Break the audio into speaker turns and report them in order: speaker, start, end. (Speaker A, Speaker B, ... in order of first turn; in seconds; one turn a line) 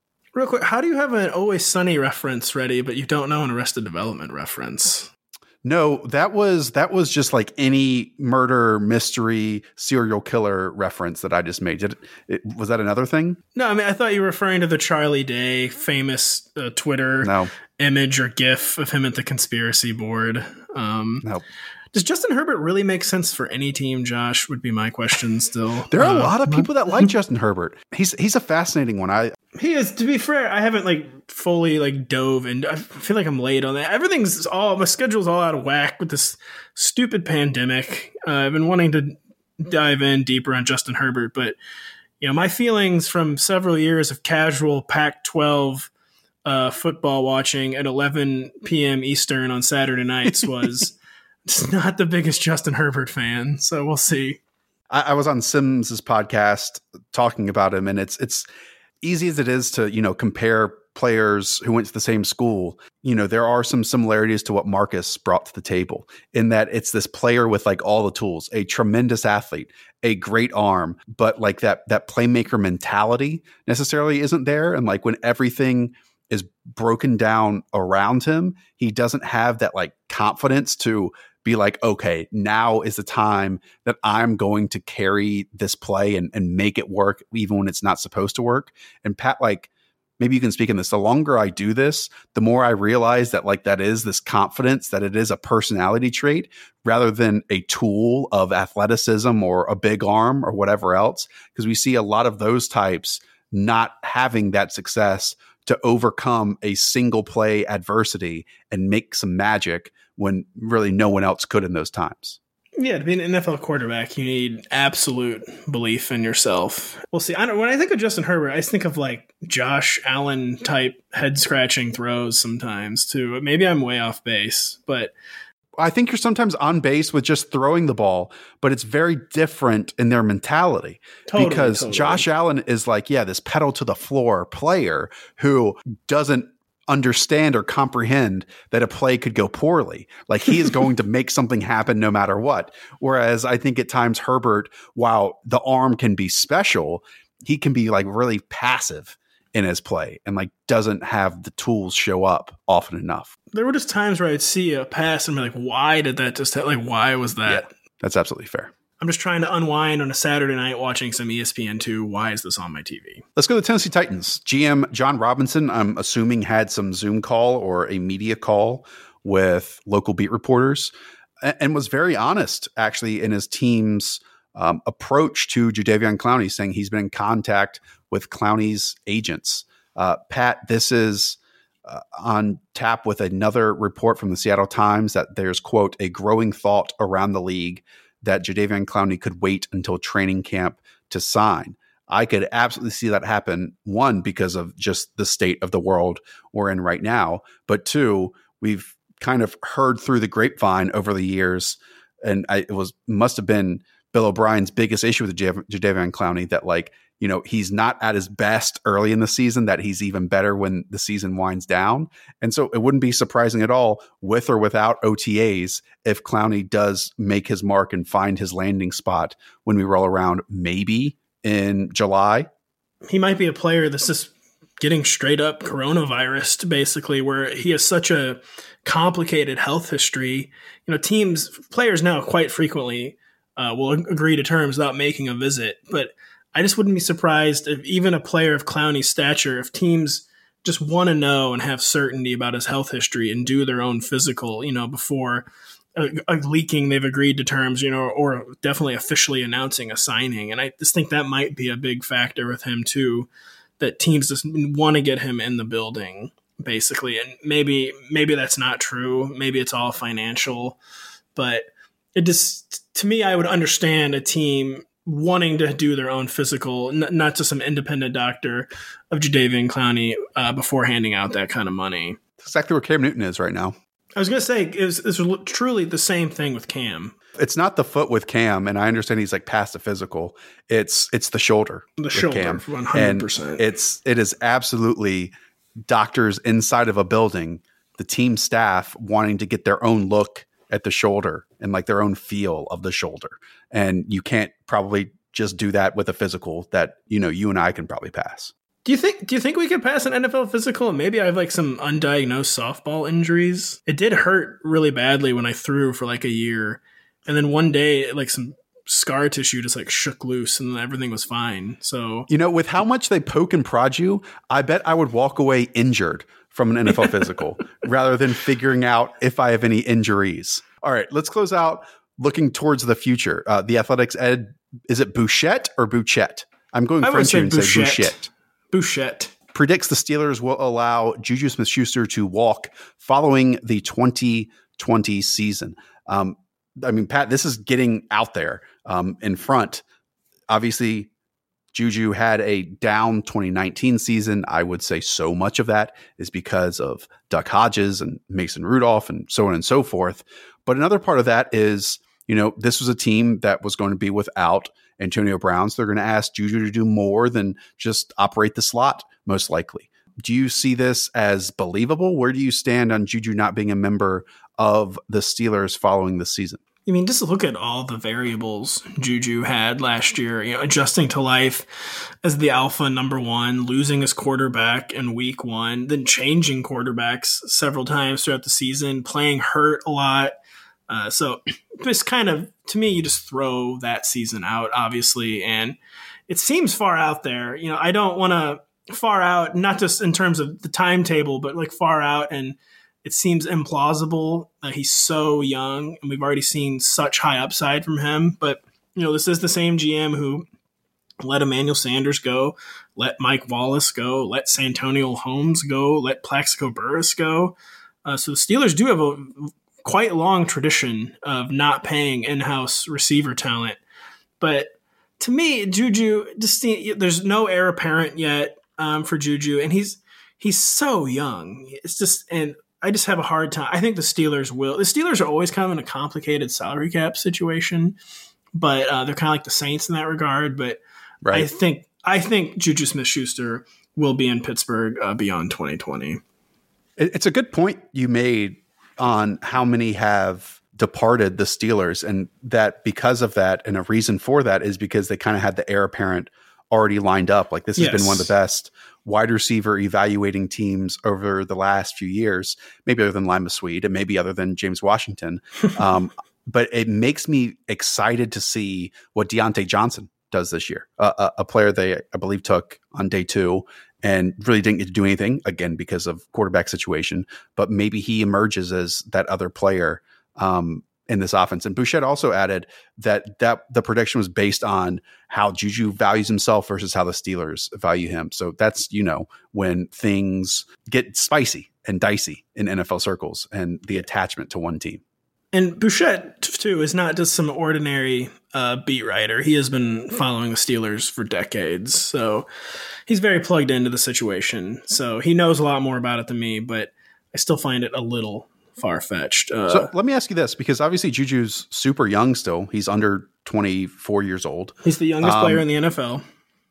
Speaker A: 0.3-5.1
Speaker B: 5.6-13.4
Speaker A: 13.6-21.3
Speaker B: 17.2-17.5
Speaker A: 21.9-26.7
Speaker B: 25.9-29.3
Speaker A: 29.6-41.6
Speaker A: 42.2-45.9
Speaker A: 46.5-51.0
Speaker A: 51.5-54.4
Speaker B: 54.9-58.5
Speaker B: 59.0-112.4
Speaker A: 112.8-125.1
Speaker B: 125.8-153.3
Speaker A: 131.3-132.3
Speaker A: 153.5-157.7
Speaker B: 157.4-158.7
Speaker A: 159.0-163.2
Speaker B: 163.4-222.5
Speaker A: 223.1-253.3
Speaker A: 253.8-260.8
Speaker A: 261.4-272.2
Speaker B: 272.4-273.8
Speaker A: 274.2-277.2
Speaker B: 277.4-285.3
Speaker A: 282.0-283.6
Speaker B: 285.9-298.5
Speaker A: 298.9-312.3
Speaker B: 312.3-328.3
Speaker A: 327.0-329.3
Speaker B: 329.5-339.8
Speaker B: 340.5-341.1
Speaker B: 341.7-366.6
Speaker A: 366.9-380.4
Speaker A: 380.9-385.8
Speaker A: 386.3-400.5
Speaker A: 401.2-413.8
Speaker A: 414.4-428.0
Speaker A: 428.6-430.8
Speaker B: 431.2-431.5
Speaker A: 431.3-436.2
Speaker B: 437.0-485.0
Speaker A: 447.8-448.3
Speaker A: 485.5-492.5
Speaker A: 493.1-499.9
Speaker B: 499.7-505.6
Speaker A: 504.8-506.2